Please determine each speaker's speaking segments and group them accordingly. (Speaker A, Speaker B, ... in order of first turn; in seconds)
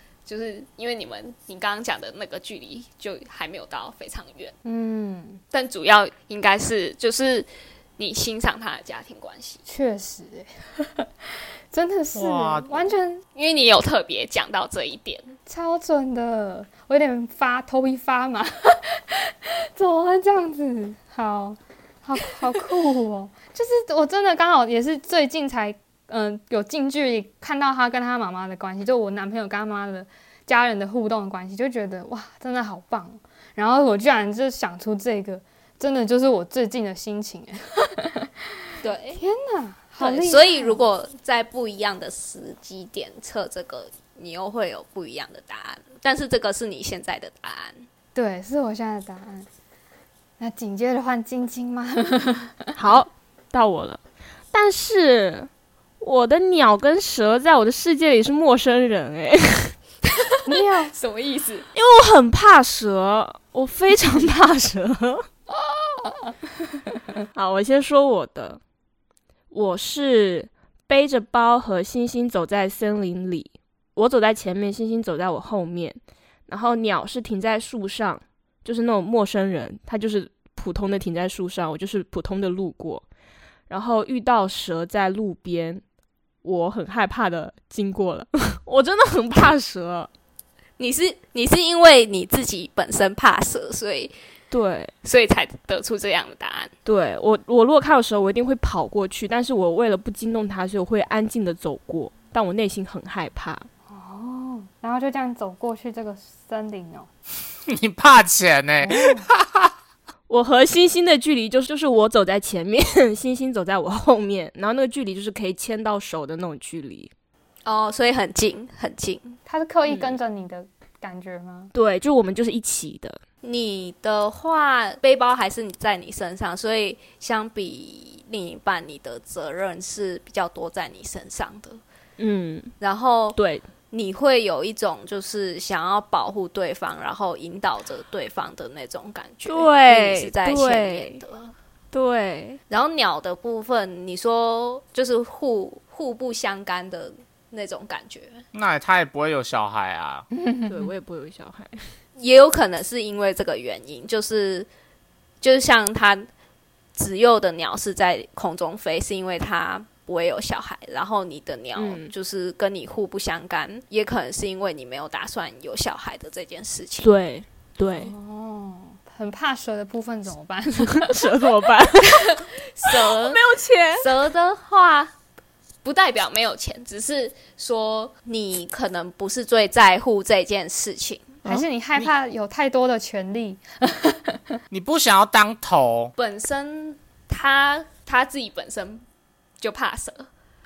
Speaker A: 0.2-4.5, 5.5-9.6, 13.3-15.3, 38.8-39.1, 60.5-61.7, 95.0-96.7, 172.1-173.4, 174.0-175.1, 175.8-178.1, 186.2-189.0, 189.6-190.3
Speaker B: 4.6-5.4, 9.7-11.1, 11.7-13.2, 15.5-38.3, 39.1-40.8, 48.1-49.5, 50.4-52.6, 60.5-60.9, 65.5-66.3, 103.9-107.1, 108.8-109.3, 119.5-121.7, 150.3-150.9, 168.0-171.4, 181.4-184.4
Speaker C: 12.1-12.7, 107.7-109.7, 148.5-150.2, 181.5-182.1, 184.7-186.1
Speaker D: 40.0-47.8, 90.8-94.1, 117.6-119.4, 123.4-131.8, 132.8-133.4, 133.9-141.5, 142.7-148.4, 152.2-154.7, 155.4-156.3, 156.9-167.1, 178.2-181.4
Speaker E: 52.7-54.0, 54.5-55.5, 56.0-59.8, 61.7-65.2, 67.3-68.6, 69.5-83.0, 83.7-85.8, 86.4-90.1, 94.5-94.9, 96.8-103.7, 110.3-117.1, 119.9-120.2, 121.7-123.2, 132.2-132.8, 133.3-133.7, 139.4-141.2, 141.9-142.6, 150.7-151.8, 161.8-162.1, 167.0-168.1, 170.9-174.1